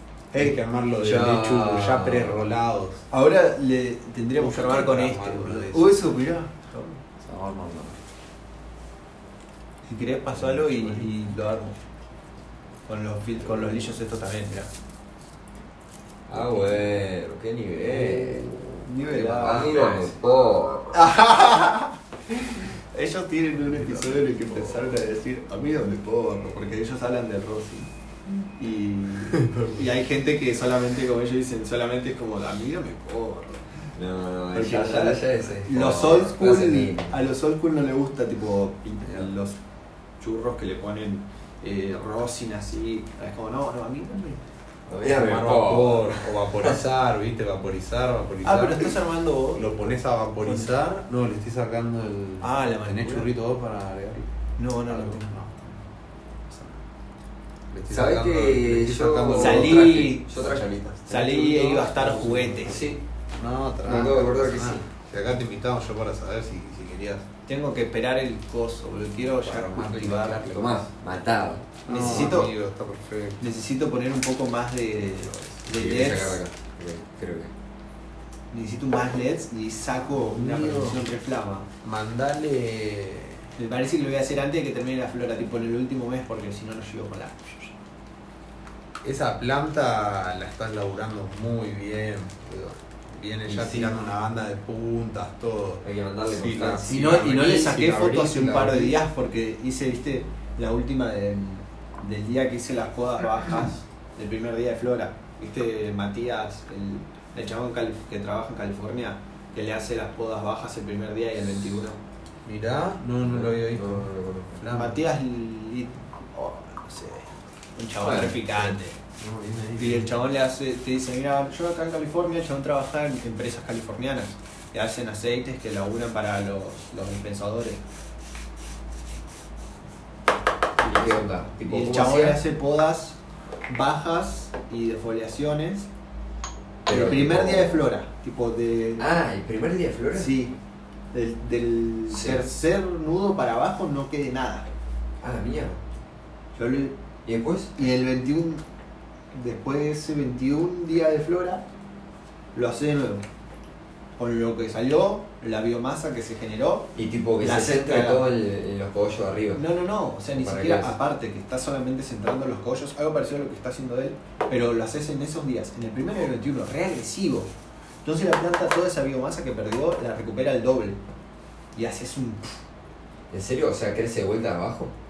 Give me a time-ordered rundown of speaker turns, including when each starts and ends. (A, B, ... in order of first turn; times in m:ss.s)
0:00.3-0:03.0 A
0:01.0-0:02.4 B
0:03.1-0:07.0 C
0:04.4-0:06.0 A
0:07.2-0:08.0 A
0:09.8-0:11.8 C
0:10.4-0:11.1 A
0:12.9-0:14.7 C
0:16.3-0:20.9 B
0:17.9-0:20.1 C
0:20.9-0:27.9 C
0:23.6-0:24.9 A
0:28.6-0:33.6 C
0:29.3-0:29.8 A
0:33.9-0:37.2 B
0:34.5-0:39.6 C
0:40.2-0:44.4 C
0:44.9-0:46.8 B
0:45.0-0:48.9 A
0:48.4-0:50.7 C
0:49.5-0:54.3 A
0:52.4-0:53.3 C
0:54.6-0:55.7 C
0:54.9-0:55.7 A
0:56.5-0:56.8 A
0:57.7-1:07.2 A
0:57.9-1:01.0 B
0:59.3-1:00.3 C
1:01.1-1:02.8 C
1:02.7-1:03.0 B
1:03.8-1:04.8 B
1:07.5-1:10.4 C
1:09.4-1:10.9 A
1:10.5-1:12.3 B
1:11.9-1:12.5 C
1:11.9-1:13.5 A
1:13.4-1:16.4 C
1:15.1-1:15.6 A
1:15.7-1:17.5 B
1:18.5-1:21.7 C
1:20.0-1:21.1 A
1:21.8-1:23.4 A
1:23.6-1:27.7 C
1:29.0-1:39.0 A
1:33.5-1:33.9 B
1:35.8-1:37.3 B
1:36.9-1:52.0 C
1:52.4-1:55.0 A
1:53.2-1:54.6 B
1:54.7-1:59.0 C
1:58.0-1:58.8 B
1:59.2-2:00.1 A
1:59.8-2:07.8 C
2:10.8-2:12.4 B
2:10.9-2:13.2 C
2:13.7-2:15.9 C
2:16.8-2:17.8 B
2:16.9-2:19.0 C
2:19.0-2:20.4 B
2:20.1-2:20.5 C
2:21.1-2:24.7 C
2:22.1-2:22.4 B
2:25.2-2:25.8 B
2:26.5-2:26.9 C
2:27.2-2:27.7 B
2:27.8-2:28.6 C
2:29.3-2:31.6 C
2:32.5-2:33.2 C
2:34.2-2:38.2 C
2:36.9-2:39.6 B
2:39.5-2:47.5 C
2:40.3-2:40.9 B
2:48.0-2:51.0 C
2:51.7-2:52.6 C
2:53.3-2:54.9 B